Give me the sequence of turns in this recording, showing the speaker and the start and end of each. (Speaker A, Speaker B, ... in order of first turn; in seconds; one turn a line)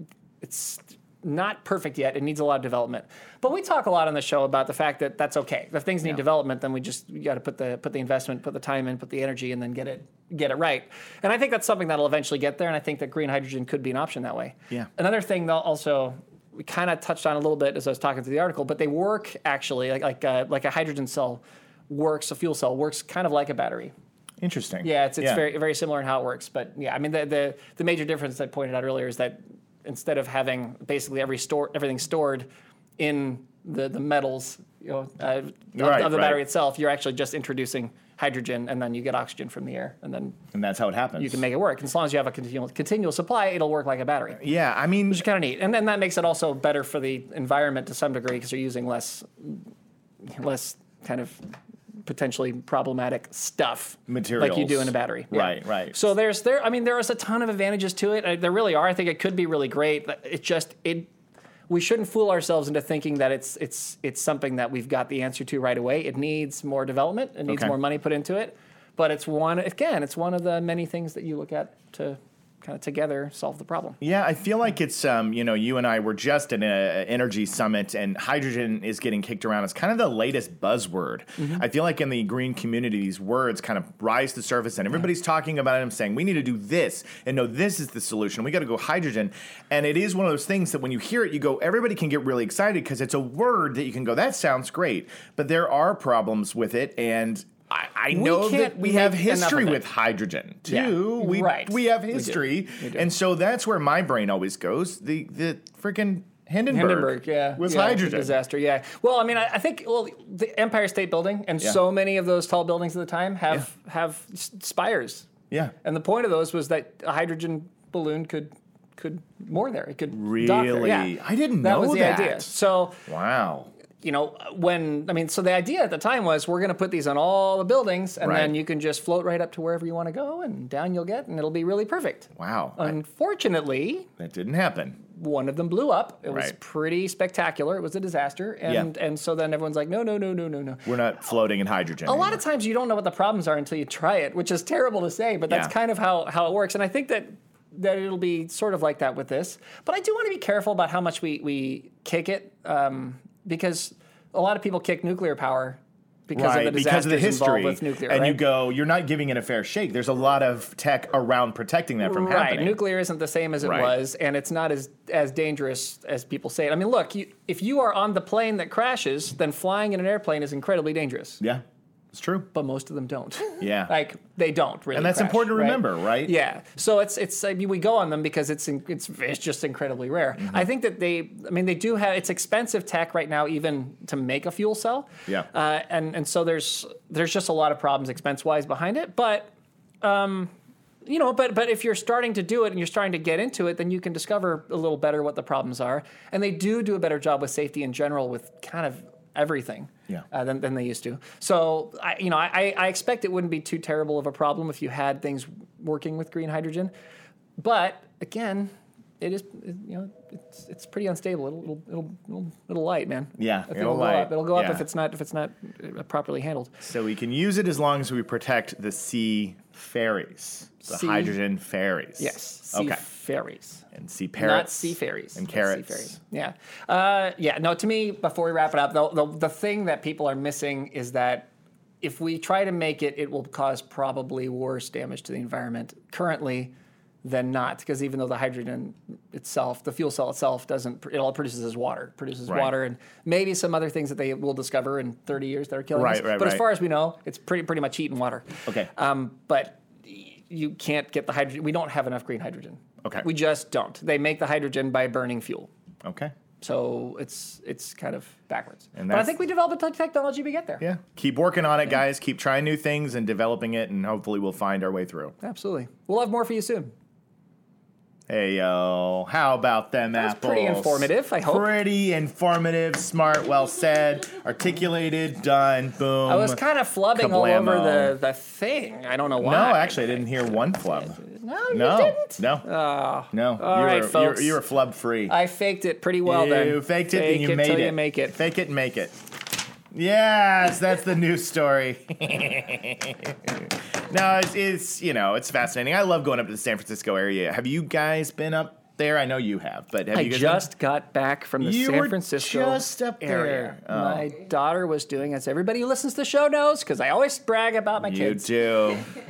Speaker A: 0.4-23.9
Speaker B: 24.4-25.4
Speaker A: 24.8-32.5
Speaker A: 33.0-40.4
Speaker B: 35.8-36.4
Speaker B: 40.5-41.4
Speaker A: 41.2-44.4
Speaker B: 44.4-45.2
Speaker A: 45.1-49.7
Speaker A: 50.2-51.4
Speaker A: 52.1-61.1
Speaker B: 54.1-56.0
Speaker A: 61.7-74.0
Speaker B: 67.5-67.8
Speaker B: 74.0-108.4
Speaker A: 98.1-99.8
Speaker A: 100.7-103.1
Speaker A: 106.7-115.3
Speaker A: 115.8-123.0
Speaker B: 120.1-122.5
Speaker B: 123.1-123.7
Speaker A: 124.0-134.1
Speaker B: 128.2-128.6
Speaker B: 132.4-133.0
Speaker B: 134.2-135.0
Speaker A: 135.1-140.9
Speaker B: 136.3-136.5
Speaker B: 140.9-142.4
Speaker A: 142.1-158.4
Speaker B: 145.5-145.7
Speaker B: 156.3-162.8
Speaker A: 162.0-171.4
Speaker B: 163.6-163.9
Speaker B: 171.4-172.5
Speaker A: 172.5-190.5
Speaker B: 173.6-173.9
Speaker B: 174.9-176.3
Speaker A: 191.1-206.9
Speaker A: 207.6-216.8
Speaker B: 213.4-214.8
Speaker B: 216.8-223.0
Speaker A: 220.8-221.3
Speaker A: 222.2-223.8
Speaker B: 223.9-226.2
Speaker A: 224.4-231.5
Speaker A: 232.0-255.7
Speaker B: 242.5-242.7
Speaker B: 245.9-246.6
Speaker B: 256.0-256.3
Speaker A: 256.6-260.8
Speaker B: 259.0-259.3
Speaker B: 260.8-265.4
Speaker A: 265.4-266.9
Speaker B: 268.3-276.6
Speaker A: 270.2-271.7
Speaker A: 276.3-280.3
Speaker B: 277.1-278.2
Speaker B: 279.4-281.2
Speaker A: 281.2-284.6
Speaker B: 281.7-282.7
Speaker B: 283.3-285.4
Speaker A: 285.3-288.4
Speaker B: 286.2-289.3
Speaker B: 289.9-300.7
Speaker A: 300.1-308.5
Speaker B: 301.6-304.3
Speaker B: 308.0-309.1